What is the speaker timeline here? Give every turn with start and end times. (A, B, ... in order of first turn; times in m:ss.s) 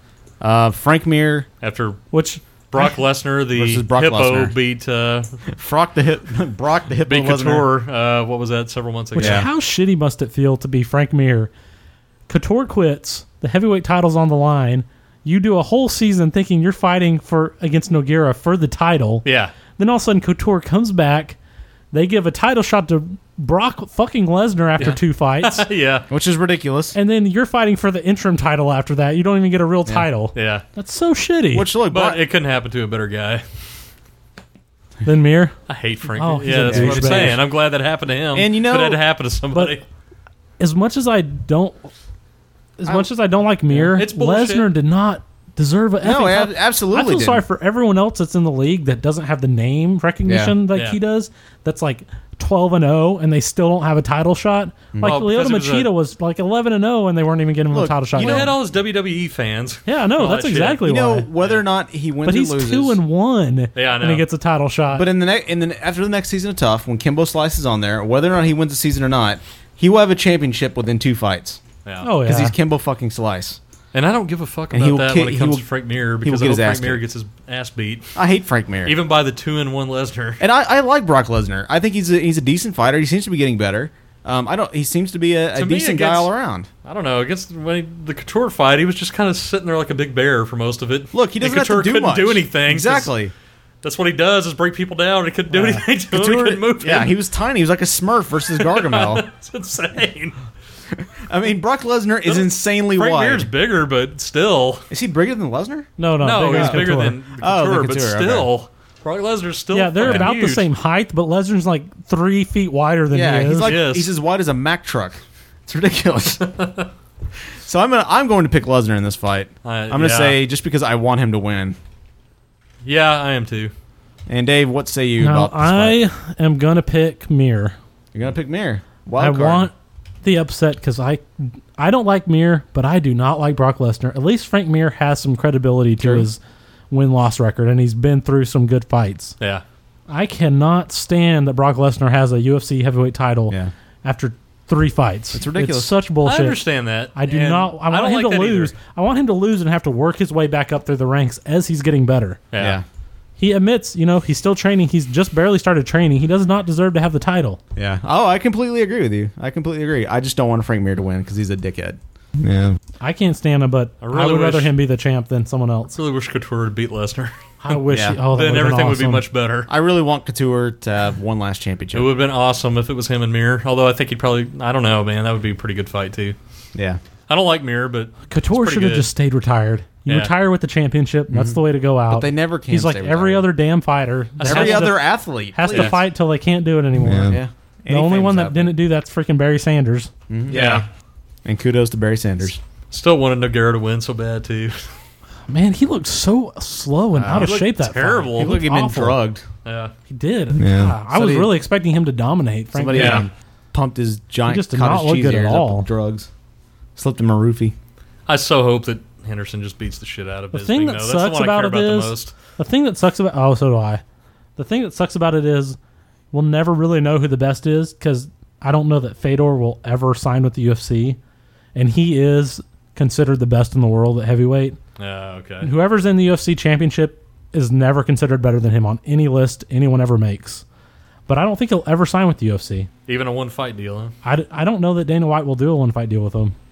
0:00.4-0:01.5 A
0:01.6-0:02.0 B
0:02.1-0:02.9 C
0:02.7-0:05.3 B
0:03.5-0:04.5 A
0:05.5-0:07.7 A
0:07.0-0:09.4 B
0:09.2-0:11.5 C
0:09.2-0:09.5 A
0:12.3-0:19.2 C
0:19.2-0:19.5 B
0:19.8-0:21.4 C
0:21.9-0:25.6 C
0:24.8-0:26.0 B
0:26.1-0:27.0 A
0:26.9-0:31.7 C
0:30.3-0:30.6 B
0:31.5-0:32.2 A
0:31.9-0:33.4 B
0:35.0-0:35.6 C
0:35.7-0:39.8 B
0:36.1-0:37.4 C
0:36.7-0:37.4 A
0:38.3-0:39.0 A
0:39.5-0:39.8 C
0:40.6-0:41.8 C
0:42.8-0:58.5 C
0:43.7-0:44.7 B
0:46.0-0:47.4 A
0:50.2-0:50.5 A
0:50.7-0:51.0 B
0:55.0-0:55.9 B
0:57.7-0:58.5 A
0:58.2-1:00.8 B
0:59.8-1:01.3 C
1:00.8-1:03.0 A
1:02.2-1:05.1 C
1:03.7-1:04.2 B
1:04.9-1:11.6 A
1:11.8-1:12.1 B
1:12.0-1:12.5 C
1:12.2-1:13.6 A
1:13.9-1:18.2 B
1:14.7-1:15.6 A
1:16.2-1:17.0 A
1:18.1-1:19.0 A
1:18.8-1:20.4 B
1:20.4-1:26.7 A
1:25.5-1:26.3 B
1:26.8-1:33.1 B
1:31.1-1:33.3 A
1:33.8-1:37.2 B
1:35.5-1:35.8 C
1:36.1-1:39.2 A
1:38.6-1:40.4 B
1:40.9-1:43.5 A
1:42.2-1:44.8 B
1:44.9-1:45.9 A
1:46.0-1:47.2 C
1:46.2-1:50.7 B
1:46.4-1:48.5 A
1:49.7-1:53.7 C
1:50.0-1:50.3 A
1:53.1-1:56.4 A
1:53.6-1:54.1 B
1:56.4-1:56.9 B
1:57.6-2:01.8 A
1:59.6-2:00.4 B
2:02.8-2:03.7 B
2:04.3-2:06.0 A
2:05.2-2:07.8 C
2:08.1-2:09.7 A
2:09.2-2:11.2 C
2:11.8-2:16.4 C
2:16.0-2:16.3 A
2:16.9-2:19.3 C
2:20.1-2:26.6 C
2:25.3-2:25.9 A
2:26.2-2:28.8 B
2:27.1-2:32.4 C
2:32.5-2:32.8 B
2:32.6-2:32.8 A
2:33.4-2:37.6 C
2:37.8-2:42.8 A
2:43.0-2:45.9 C
2:44.0-2:44.7 B
2:45.9-2:47.3 B
2:47.6-2:49.2 C
2:47.9-2:48.2 A
2:48.3-2:49.7 B
2:49.7-2:52.1 A
2:51.9-2:56.4 B
2:56.7-2:57.0 A
2:57.3-2:59.1 B
2:58.3-3:10.1 C
3:00.1-3:00.3 B
3:01.3-3:03.5 A
3:04.4-3:04.9 B
3:04.4-3:06.0 A
3:05.7-3:06.0 B
3:07.0-3:08.7 A
3:10.3-3:10.8 A
3:10.5-3:10.8 B
3:11.4-3:12.6 A
3:12.9-3:14.8 B
3:15.5-3:19.2 C
3:17.1-3:17.6 A
3:17.4-3:18.6 B
3:18.4-3:19.4 A
3:19.6-3:19.9 B
3:20.1-3:23.2 C
3:20.5-3:21.6 A
3:22.7-3:26.3 A
3:22.9-3:23.2 B
3:24.4-3:25.9 C
3:27.0-3:27.7 A
3:28.3-3:32.3 B
3:30.5-3:34.0 C
3:34.6-3:35.8 C
3:36.3-3:41.2 C
3:41.7-3:44.8 C
3:45.0-3:45.7 B
3:45.6-3:50.6 C
3:51.3-3:52.9 C
3:53.1-3:54.1 B
3:54.2-3:56.5 C